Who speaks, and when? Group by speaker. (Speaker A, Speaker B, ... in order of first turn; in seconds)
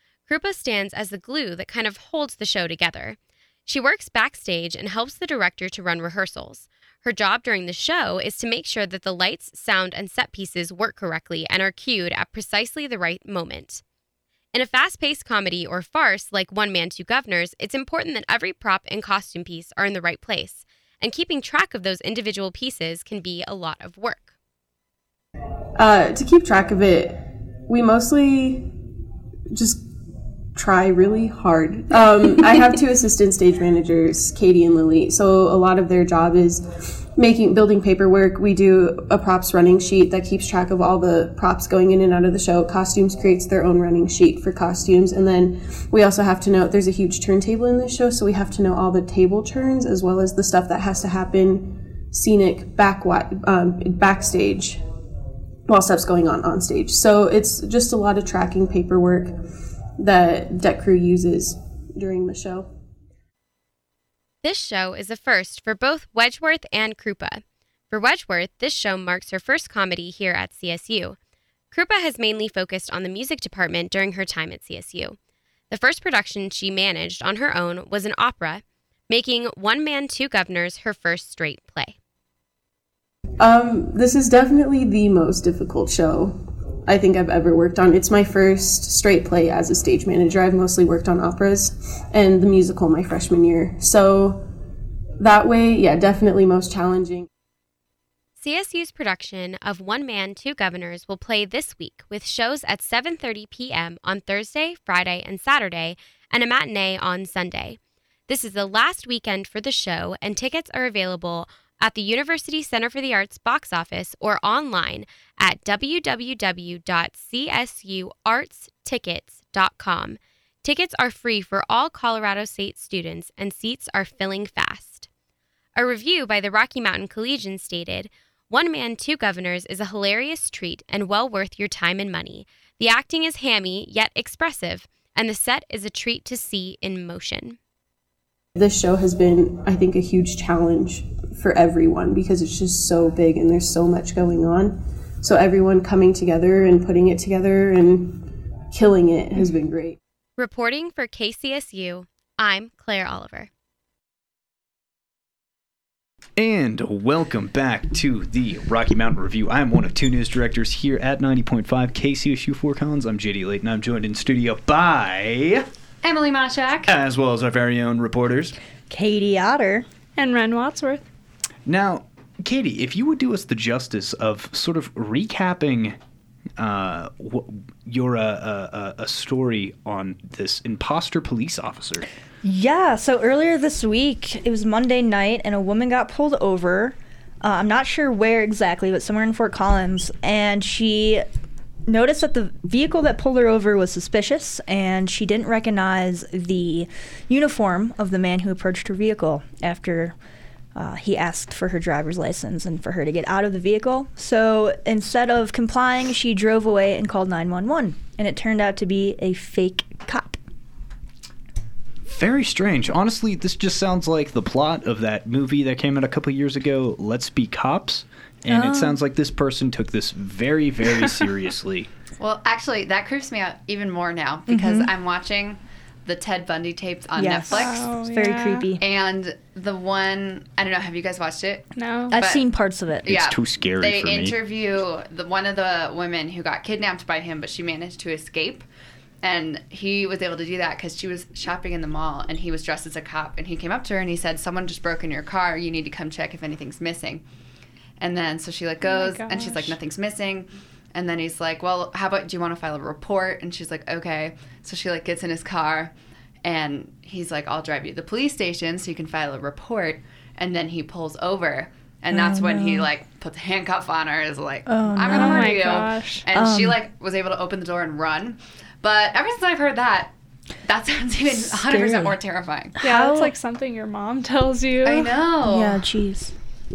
Speaker A: 0.2-13.8, 14.5-24.3, 64.4-71.2, 71.7-75.2, 75.7-82.0, 98.4-125.1, 125.7-137.6, 150.4-153.5
Speaker B: 25.7-28.8, 29.5-29.9, 30.5-54.8, 55.7-59.4, 60.0-62.7, 83.4-94.5, 95.2-97.3, 138.6-150.0
Speaker C: 156.4-165.7, 166.9-168.5, 171.7-176.0, 176.6-182.0, 212.0-221.9, 233.1-234.3
Speaker D: 166.0-166.9, 222.2-227.9, 228.8-232.4, 233.0-238.6, 239.2-247.2, 248.0-255.9, 256.4-270.1, 270.6-272.8, 274.8-275.8
Speaker E: 168.9-169.8, 182.4-191.2, 191.8-200.2, 200.7-210.4, 218.5-219.0, 224.5-224.9, 227.2-228.8, 232.1-233.1, 262.1-262.9, 264.7-265.6, 266.3-266.8, 271.3-272.1, 272.8-273.3, 275.4-276.3
Speaker F: 170.2-171.0, 227.5-228.7, 231.7-232.2, 248.8-249.8, 265.0-266.2, 272.8-275.2